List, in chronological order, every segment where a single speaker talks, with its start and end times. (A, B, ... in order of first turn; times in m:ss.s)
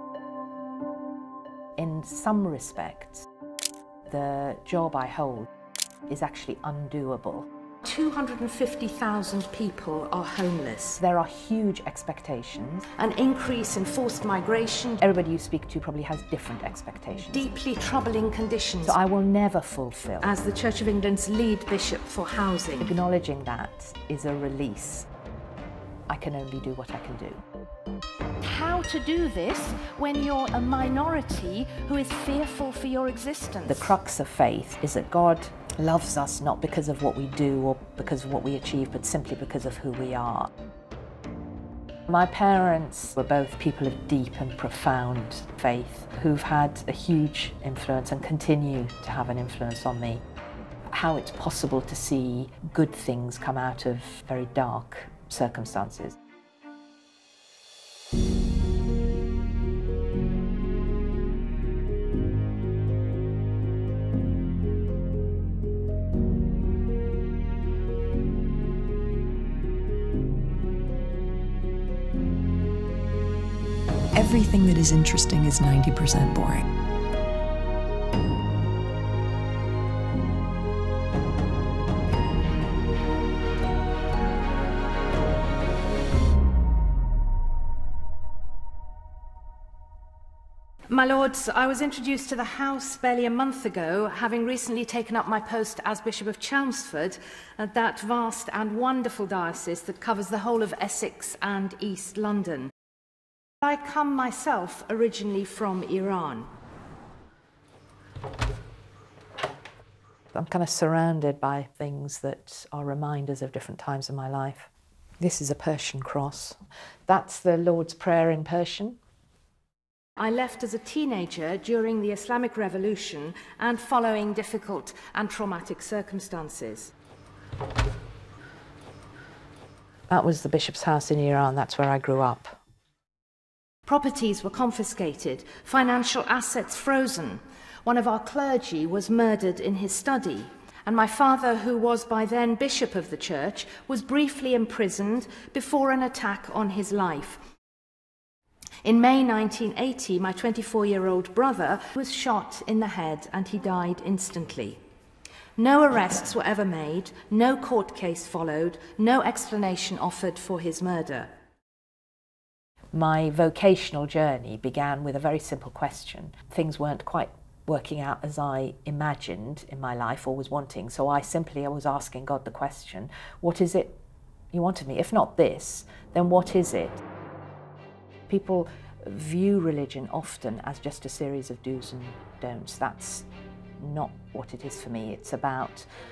0:01.8-0:03.3 A
0:04.1-0:05.5 A
0:06.1-0:07.5 A
0:07.8-0:11.0 B
0:11.0-0:13.0 A
0:13.0-0:15.0 B
0:15.0-0:17.6 A
0:17.3-0:18.9 B
0:18.8-0:20.4 A
0:20.3-0:22.8 B
0:22.8-0:25.1 A
0:26.1-0:27.4 A
0:28.4-0:33.7 B
0:33.7-0:40.5 A
0:42.1-0:50.2 A
0:50.9-0:56.2 A
1:14.2-1:16.6 C
1:30.9-1:42.7 B
1:43.6-1:46.5 B
1:50.3-1:59.0 A
2:00.2-2:06.9 B
2:10.1-2:12.6 A
2:13.9-2:27.4 B
2:28.8-2:34.8 B
2:35.6-2:41.3 B
2:42.9-2:54.0 A
2:54.5-2:57.0 A
2:58.3-3:03.3 A
3:03.8-3:05.9 A